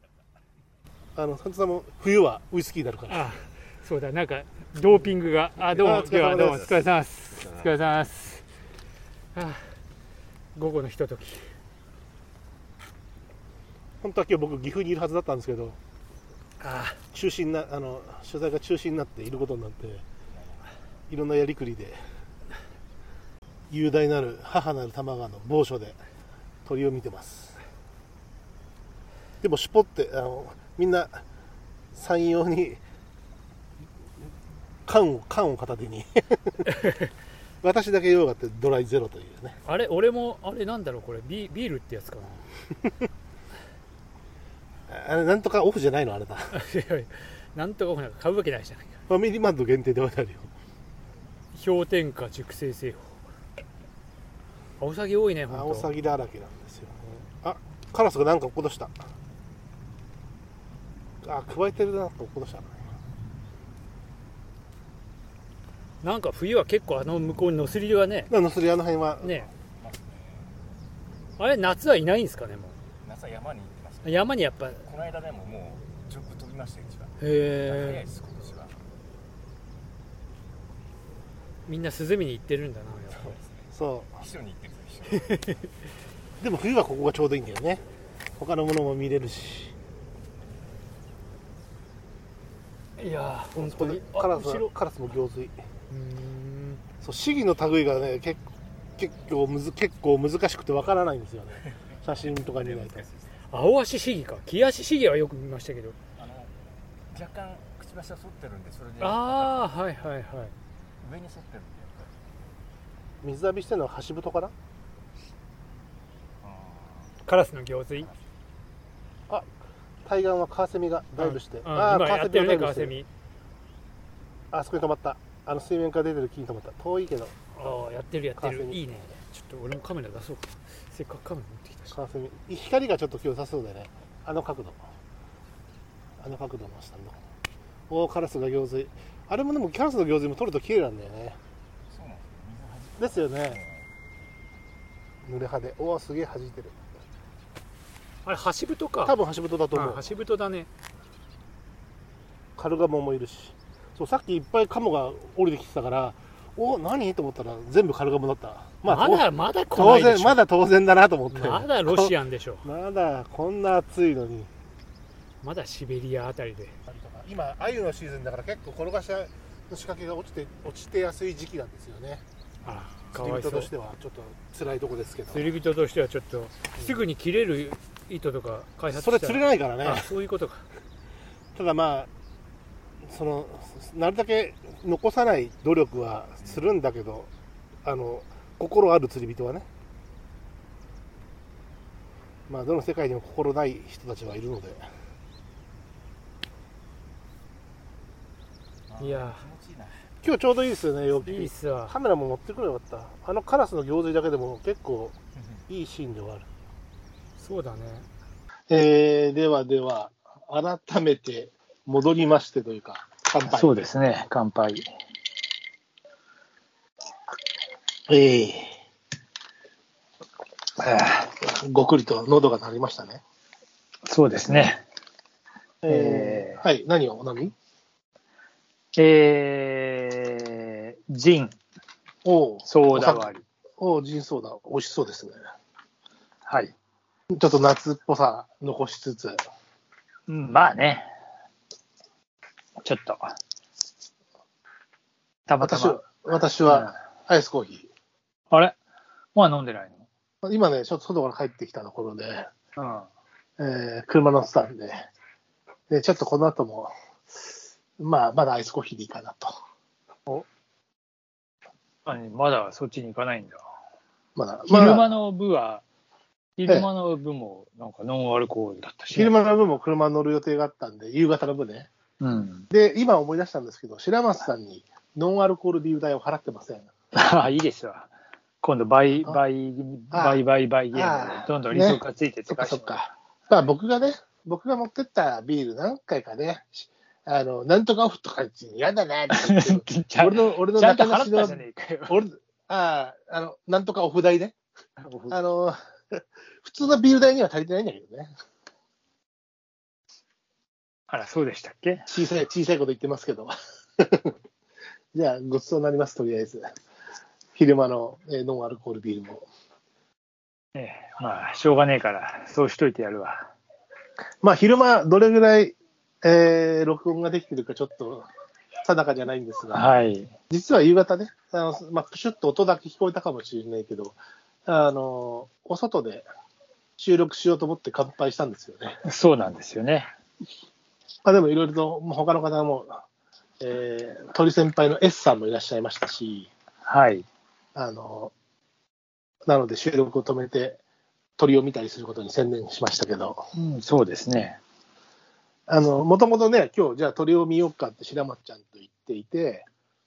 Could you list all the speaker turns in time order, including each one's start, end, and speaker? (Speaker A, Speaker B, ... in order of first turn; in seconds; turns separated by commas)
Speaker A: 1.1-3.3, Speaker B: 3.1-8.4, Speaker A: 5.6-6.7, Speaker C: 7.4-7.7, Speaker B: 9.3-9.7, Speaker B: 10.5-11.4, Speaker A: 14.0-15.8, Speaker B: 16.6-17.0, Speaker A: 17.1-20.0, Speaker A: 21.1-22.0, Speaker A: 23.7-26.0, Speaker A: 26.7-27.6, Speaker A: 29.4-31.2, Speaker A: 31.9-32.8, Speaker A: 34.9-36.6, Speaker A: 37.6-39.6, Speaker B: 39.6-42.4, Speaker A: 44.9-46.5, Speaker B: 46.5-49.0, Speaker A: 49.1-50.5, Speaker B: 51.5-53.2, Speaker B: 54.8-55.9, Speaker A: 55.5-58.9, Speaker A: 61.2-62.8, Speaker B: 66.0-68.3, Speaker A: 68.3-69.4, Speaker B: 69.2-69.5, Speaker C: 69.8-70.5, Speaker B: 71.4-72.8, Speaker C: 73.0-74.3, Speaker B: 74.0-74.9, Speaker C: 74.8-77.1, Speaker B: 77.2-78.0, Speaker C: 77.6-78.8, Speaker B: 81.7-83.4, Speaker C: 83.1-85.3, Speaker A: 83.7-84.2, Speaker B: 85.2-85.6, Speaker A: 86.4-87.8, Speaker A: 88.4-89.7, Speaker B: 93.0-94.7, Speaker A: 93.5-95.5, Speaker B: 95.9-96.8, Speaker A: 97.0-98.4, Speaker A: 99.0-103.1, Speaker C: 102.2-103.4, Speaker B: 103.5-106.0, Speaker C: 106.2-106.5, Speaker C: 107.1-109.6, Speaker B: 109.0-110.5, Speaker C: 111.0-112.1, Speaker A: 113.2-114.5, Speaker C: 116.4-117.1, Speaker B: 117.2-118.1, Speaker A: 120.0-122.9, Speaker B: 121.2-123.1, Speaker A: 124.5-127.3, Speaker B: 127.5-131.9, Speaker A: 128.4-128.8, Speaker A: 131.9-134.8, Speaker A: 136.2-137.2, Speaker A: 137.9-141.4, Speaker C: 141.9-143.9, Speaker A: 143.0-143.6, Speaker A: 145.2-146.8, Speaker B: 148.2-149.2, Speaker A: 149.0-150.1, Speaker B: 149.7-150.7, Speaker A: 152.6-164.5, Speaker B: 158.8-160.4, Speaker B: 161.3-162.7, Speaker B: 165.4-166.8, Speaker A: 166.9-172.2, Speaker B: 172.6-173.7, Speaker A: 173.1-175.5, Speaker B: 175.3-180.7, Speaker A: 178.9-180.1, Speaker A: 181.5-182.1, Speaker A: 183.0-187.3, Speaker A: 187.8-189.7, Speaker A: 192.5-194.9, Speaker C: 198.9-200.1, Speaker B: 199.0-199.4, Speaker A: 200.2-205.2, Speaker B: 201.2-201.9, Speaker A: 205.7-206.5, Speaker B: 207.4-208.1, Speaker A: 208.7-213.9, Speaker D: 213.4-214.9, Speaker A: 218.1-218.7, Speaker A: 220.8-223.2, Speaker D: 224.1-224.8, Speaker A: 225.8-227.5, Speaker D: 225.9-226.6, Speaker D: 228.9-231.6, Speaker A: 232.2-235.4, Speaker D: 232.7-233.4, Speaker D: 236.4-236.7, Speaker A: 237.3-239.4, Speaker D: 240.3-241.1, Speaker D: 242.8-243.3, Speaker D: 245.5-246.0, Speaker A: 245.6-247.9, Speaker D: 246.7-246.9, Speaker D: 248.5-248.8, Speaker D: 249.3-250.1, Speaker A: 250.4-252.5, Speaker D: 252.8-253.1, Speaker A: 253.6-255.1, Speaker A: 255.9-256.9, Speaker A: 258.0-259.5, Speaker D: 262.1-263.6, Speaker A: 264.4-265.1, Speaker D: 264.7-265.8, Speaker D: 266.6-269.4, Speaker A: 269.1-271.9, Speaker D: 272.2-272.7, Speaker A: 272.7-276.9, Speaker D: 277.2-278.1, Speaker D: 278.6-283.0, Speaker A: 280.1-294.6, Speaker D: 289.3-292.2, Speaker D: 295.0-295.4, Speaker A: 295.3-298.3, Speaker D: 301.1-302.1, Speaker A: 302.1-304.3, Speaker A: 305.1-306.6, Speaker A: 307.6-309.5, Speaker D: 310.8-313.5, Speaker A: 314.4-318.2, Speaker A: 318.8-319.9, Speaker D: 319.7-320.3, Speaker A: 320.5-326.2, Speaker A: 327.0-329.0, Speaker D: 329.1-330.1, Speaker A: 331.2-333.0, Speaker A: 333.6-336.5, Speaker D: 336.9-337.2, Speaker A: 337.8-338.3, Speaker A: 339.5-340.8, Speaker A: 341.4-343.4, Speaker D: 343.6-344.6, Speaker A: 345.7-349.7